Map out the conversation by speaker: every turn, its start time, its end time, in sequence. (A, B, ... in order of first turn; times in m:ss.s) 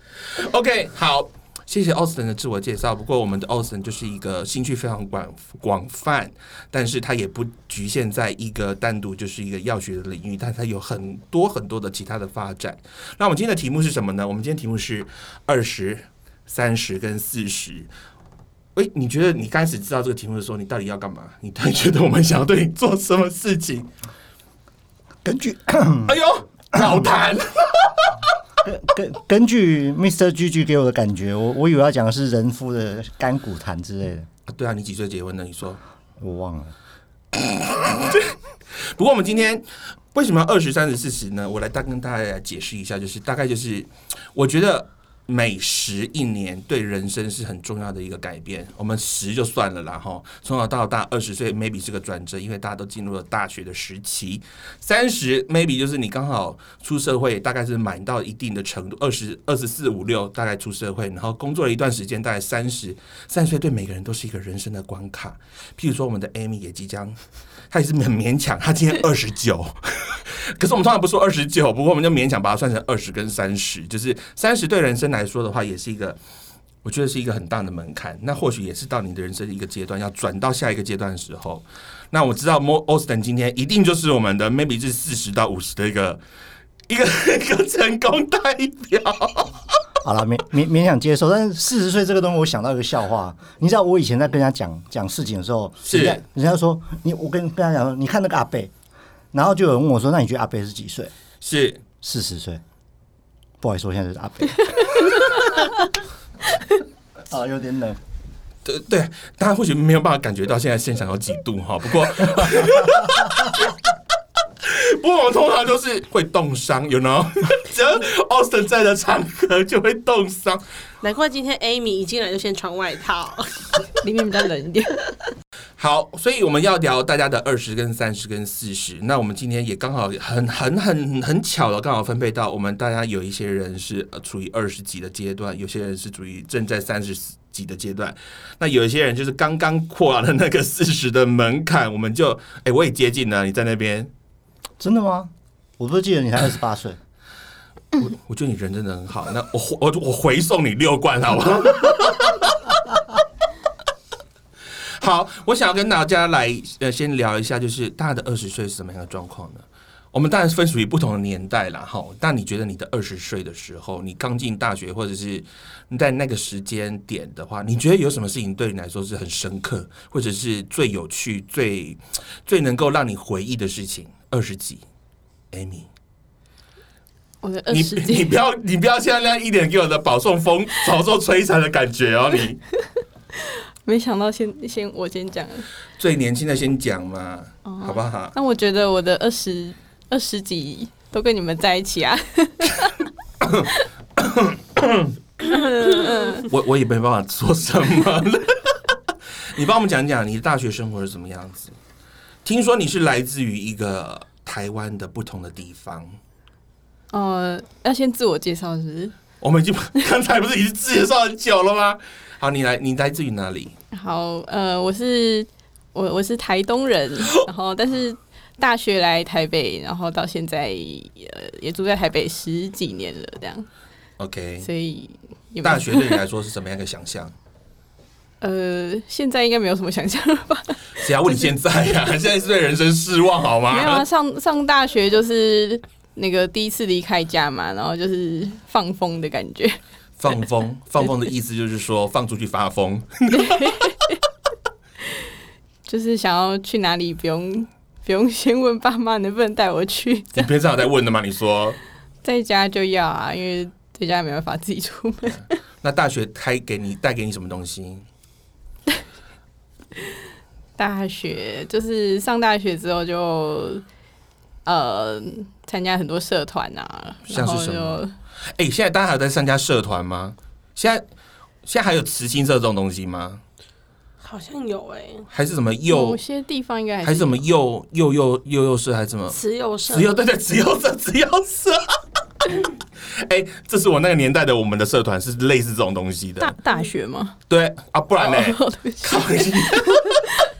0:00.4-0:17.9 A
0:18.7-0:23.9 A
0:25.2-0:26.1 B
0:26.0-0:28.1 A
0:26.8-0:27.0 B
0:28.6-0:34.3 B
0:34.5-0:35.8 A
0:36.2-0:36.7 B
0:37.3-1:07.2 A
1:07.7-1:16.2 A
1:16.8-1:26.2 A
1:26.9-1:29.7 A
1:30.0-1:38.7 B
1:35.8-1:36.2 A
1:39.3-1:41.1 B
1:41.4-1:41.8 A
1:42.0-1:42.6 B
1:43.6-1:45.4 B
1:47.3-1:48.0 B
1:48.6-1:53.7 A
1:54.6-2:00.6 A
2:01.0-2:03.6 C
2:04.0-2:05.0 D
2:05.8-2:24.1 A
2:24.8-2:27.0 B
2:28.0-2:32.7 A
2:35.0-2:54.8 A
2:55.5-2:55.9 A
2:57.4-2:58.3 D
2:57.7-3:02.6 A
3:03.4-3:05.6 D
3:06.0-3:08.3 A
3:07.6-3:13.0 D
3:13.4-3:15.1 A
3:15.4-3:16.5 D
3:16.5-3:18.8 A
3:19.5-3:21.7 A
3:22.4-3:26.2 A
3:27.1-3:29.1 D
3:29.4-3:33.7 A
3:33.9-3:43.7 D
3:44.2-3:44.7 A
3:44.6-3:46.2 D
3:45.6-3:47.3 A
3:48.4-3:51.5 D
3:51.0-3:54.0 A
3:53.7-3:59.8 D
4:00.2-4:03.7 A
4:03.3-4:04.2 D
4:05.8-4:10.5 D
4:10.3-4:11.8 A
4:12.2-4:15.4 D
4:15.3-4:18.0 A
4:20.8-4:23.8 D
4:24.6-4:28.1 D
4:27.3-4:28.0 A
4:28.6-4:31.0 A
4:31.6-4:33.4 A
4:34.2-4:35.3 C
4:35.3-4:36.2 A
4:35.9-4:37.4 D
4:37.0-4:39.4 A
4:39.3-4:40.1 C
4:39.9-4:41.8 A
4:43.2-4:46.5 A
4:46.4-4:47.4 D
4:47.5-4:50.1 A
4:48.2-4:50.4 D